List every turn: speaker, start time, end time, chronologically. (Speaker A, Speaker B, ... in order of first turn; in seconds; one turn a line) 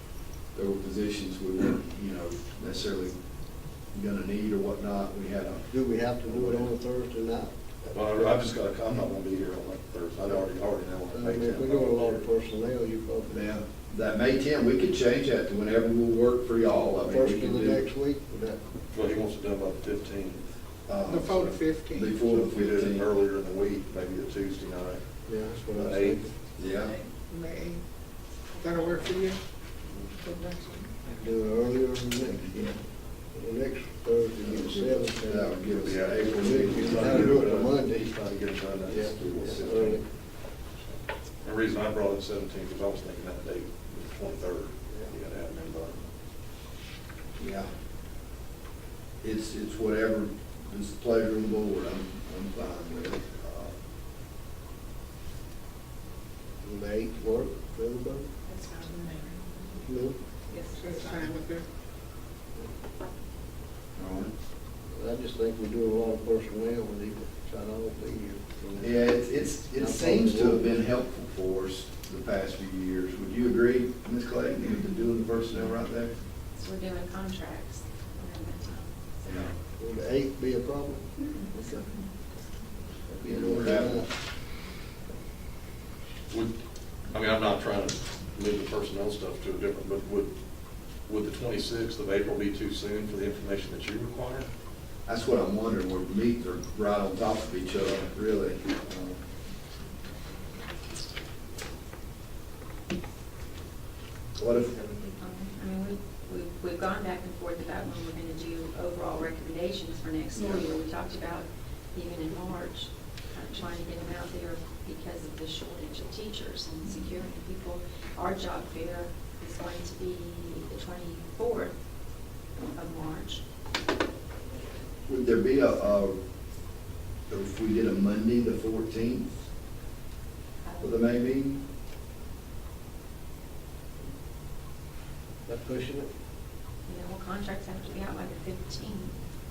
Speaker A: 0.5-3.1
Speaker A: 3.9-5.7
Speaker B: 5.7-7.5
Speaker C: 7.9-12.2
Speaker B: 11.1-13.5
Speaker A: 13.3-17.9
Speaker B: 17.0-18.6
Speaker C: 18.9-20.5
Speaker A: 20.9-23.1
Speaker D: 21.1-22.2
Speaker C: 22.2-25.0
Speaker B: 25.3-26.3
Speaker C: 25.7-26.2
Speaker A: 26.6-26.9
Speaker D: 27.3-27.8
Speaker D: 28.6-29.4
Speaker D: 30.2-30.9
Speaker B: 31.1-38.1
Speaker C: 34.4-34.9
Speaker A: 35.0-37.4
Speaker C: 35.7-39.9
Speaker B: 38.8-40.0
Speaker A: 39.4-40.0
Speaker C: 41.4-46.0
Speaker A: 47.4-47.7
Speaker A: 49.2-53.7
Speaker B: 56.6-58.3
Speaker B: 59.8-60.2
Speaker D: 60.8-61.6
Speaker A: 64.0-64.3
Speaker B: 64.9-70.8
Speaker A: 68.8-76.1
Speaker E: 76.5-79.5
Speaker A: 79.2-79.5
Speaker B: 79.8-81.1
Speaker E: 81.3-82.1
Speaker B: 83.1-84.1
Speaker A: 83.2-84.0
Speaker C: 87.1-90.3
Speaker C: 91.1-94.5
Speaker A: 95.0-99.2
Speaker A: 104.4-104.8
Speaker E: 104.7-121.7
Speaker A: 110.3-110.7
Speaker E: 122.7-123.4
Speaker A: 125.1-126.2
Speaker A: 127.3-129.3
Speaker E: 130.6-131.0
Speaker A: 130.8-131.6
Speaker B: 135.4-136.1
Speaker E: 136.8-139.1